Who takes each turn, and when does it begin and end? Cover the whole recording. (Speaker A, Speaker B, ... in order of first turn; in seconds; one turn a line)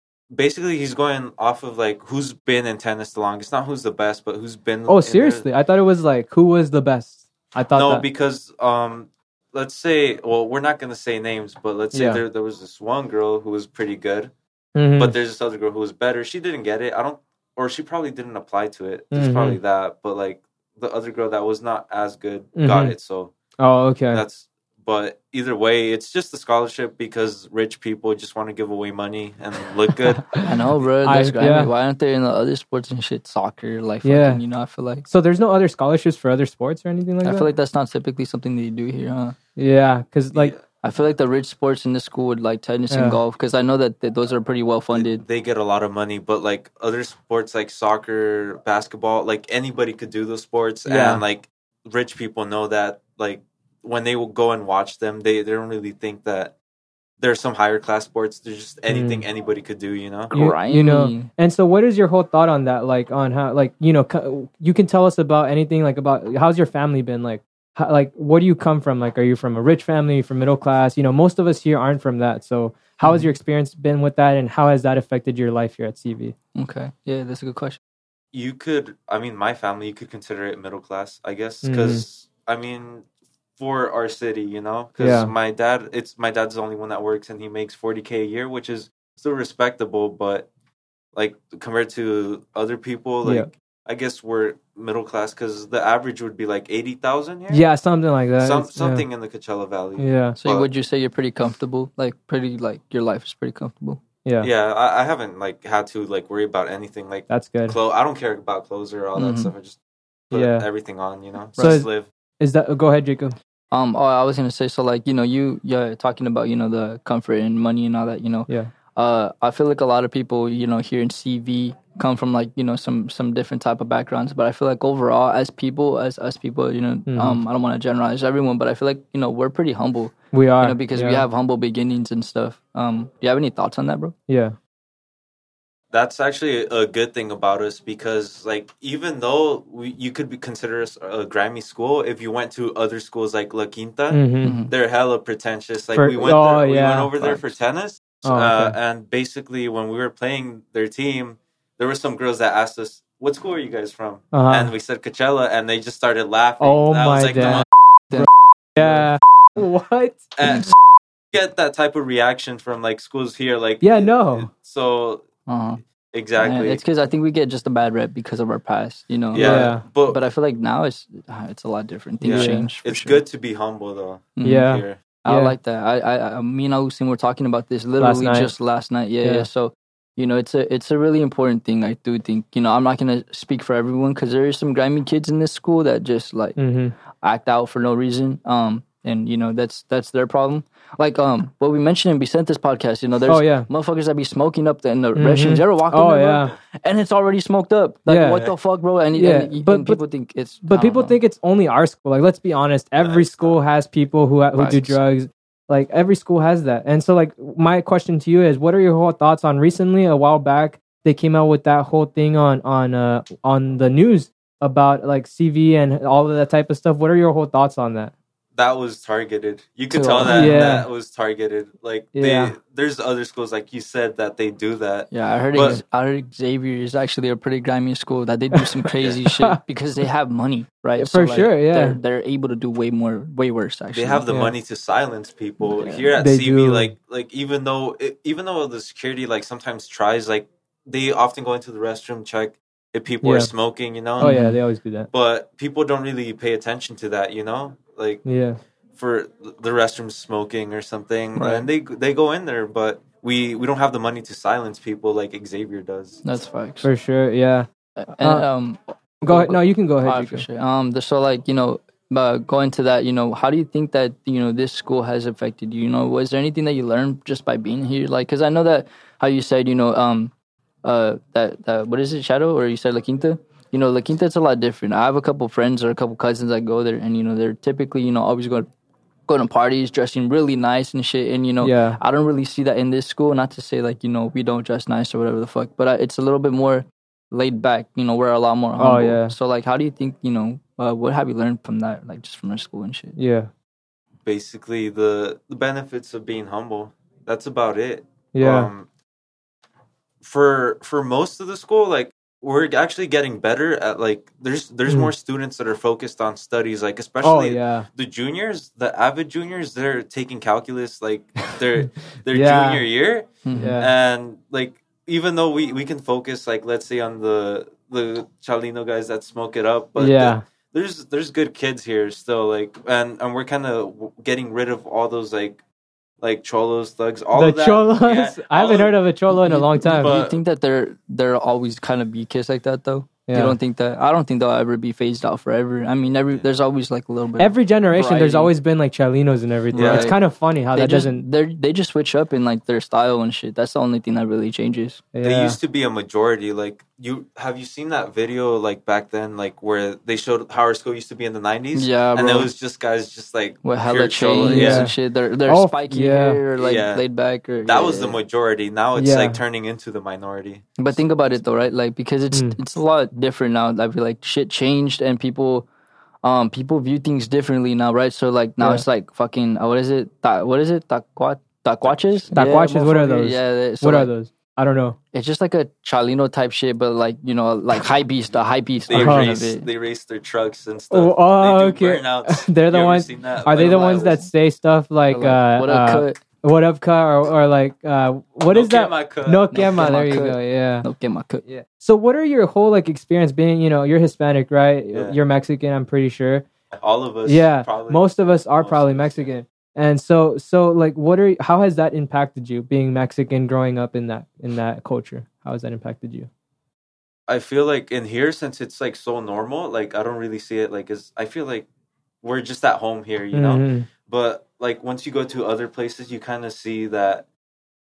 Speaker A: 0.3-5.5
Speaker B: 4.9-8.0
Speaker A: 7.8-14.3
Speaker B: 11.9-12.2
Speaker B: 14.8-15.2
Speaker A: 15.0-23.3
Speaker B: 19.1-19.6
Speaker B: 22.6-22.9
Speaker B: 23.6-24.2
Speaker A: 24.1-30.4
Speaker B: 30.1-30.4
Speaker C: 30.4-35.1
Speaker B: 31.0-31.7
Speaker B: 34.0-34.4
Speaker B: 35.1-37.5
Speaker C: 37.2-39.4
Speaker B: 39.6-40.5
Speaker A: 40.3-40.6
Speaker C: 40.8-45.2
Speaker B: 42.9-43.2
Speaker A: 45.0-56.5
Speaker B: 50.9-51.2
Speaker A: 57.2-60.3
Speaker B: 58.9-59.2
Speaker C: 60.3-61.3
Speaker B: 60.3-76.3
Speaker C: 73.0-73.3
Speaker C: 76.5-77.8
Speaker A: 78.3-83.1
Speaker B: 81.6-82.0
Speaker A: 83.6-90.5
Speaker B: 85.0-85.3
Speaker A: 91.1-97.6
Speaker B: 93.2-93.5
Speaker B: 97.5-99.0
Speaker A: 98.4-100.7
Speaker B: 100.0-100.4
Speaker C: 100.4-104.0
Speaker B: 104.2-104.5
Speaker A: 104.4-109.8
Speaker B: 107.3-107.8
Speaker C: 109.2-109.5
Speaker B: 110.3-110.7
Speaker A: 110.3-112.1
Speaker B: 111.6-111.9
Speaker B: 112.4-113.4
Speaker C: 113.7-134.1
Speaker B: 127.1-127.4
Speaker B: 130.3-131.3
Speaker B: 134.3-134.6
Speaker A: 135.9-157.7
Speaker B: 144.1-144.6
Speaker C: 144.4-144.7
Speaker B: 145.9-147.4
Speaker B: 148.2-148.8
Speaker B: 154.3-154.7
Speaker B: 156.6-160.7
Speaker C: 157.4-158.3
Speaker A: 158.8-159.0
Speaker A: 160.4-160.7
Speaker A: 161.3-165.3
Speaker B: 163.8-164.5
Speaker C: 165.5-165.8
Speaker A: 166.1-166.8
Speaker C: 166.4-173.2
Speaker A: 169.3-170.2
Speaker B: 169.3-169.8
Speaker A: 172.2-175.0
Speaker B: 172.3-172.7
Speaker C: 174.4-174.7
Speaker B: 174.4-175.6
Speaker C: 175.2-186.6
Speaker B: 178.0-178.5
Speaker B: 179.2-179.5
Speaker B: 186.6-186.9
Speaker C: 187.2-201.2
Speaker B: 193.3-193.7
Speaker B: 195.2-196.5
Speaker B: 198.1-198.5
Speaker B: 199.1-200.0
Speaker B: 200.7-218.1
Speaker A: 203.0-203.6
Speaker C: 204.6-205.0
Speaker A: 218.6-225.8
Speaker C: 219.9-220.6
Speaker B: 220.3-220.9
Speaker B: 222.2-222.5
Speaker C: 225.1-234.3
Speaker B: 231.0-232.0
Speaker A: 233.9-244.4
Speaker B: 235.8-236.9
Speaker B: 243.2-243.5
Speaker B: 244.2-245.1
Speaker C: 244.2-244.6
Speaker A: 245.1-248.2
Speaker B: 248.2-248.6
Speaker A: 248.9-256.2
Speaker C: 251.4-251.7
Speaker C: 256.2-256.9
Speaker B: 256.8-257.7
Speaker C: 258.0-270.3
Speaker B: 258.2-258.5
Speaker B: 259.2-260.5
Speaker C: 270.8-278.7
Speaker C: 279.3-293.2
Speaker B: 281.6-282.0
Speaker B: 288.8-289.3
Speaker B: 293.2-293.5
Speaker A: 294.2-298.9
Speaker B: 298.3-298.7
Speaker A: 300.2-325.6
Speaker B: 307.2-307.9
Speaker B: 311.5-312.8
Speaker C: 313.4-313.8
Speaker B: 313.6-313.9
Speaker B: 320.0-320.4
Speaker A: 326.2-328.9
Speaker B: 327.3-330.1
Speaker C: 329.4-338.5
Speaker A: 329.9-330.4
Speaker B: 333.3-333.6
Speaker B: 337.4-341.2
Speaker C: 339.7-340.2
Speaker A: 339.7-340.2
Speaker C: 340.7-345.0
Speaker B: 345.1-345.6
Speaker A: 345.2-354.9
Speaker C: 351.8-352.5
Speaker C: 353.6-358.2
Speaker B: 354.4-354.9
Speaker B: 355.5-356.4
Speaker A: 356.6-357.0
Speaker A: 357.6-361.0
Speaker B: 359.0-359.4
Speaker C: 360.8-365.7
Speaker B: 362.3-362.6
Speaker C: 366.2-374.1
Speaker B: 368.6-368.9
Speaker A: 371.8-372.6
Speaker B: 372.3-375.0
Speaker C: 375.1-379.7
Speaker A: 378.9-384.3
Speaker B: 378.9-379.3
Speaker B: 380.9-390.9
Speaker C: 383.6-384.1
Speaker C: 385.1-386.2
Speaker A: 388.5-389.9
Speaker C: 389.5-391.4
Speaker B: 391.4-396.5
Speaker A: 394.9-395.2
Speaker A: 396.7-398.0
Speaker B: 397.3-406.3
Speaker A: 398.6-399.3
Speaker A: 407.3-411.7
Speaker A: 412.2-417.3
Speaker B: 413.3-413.9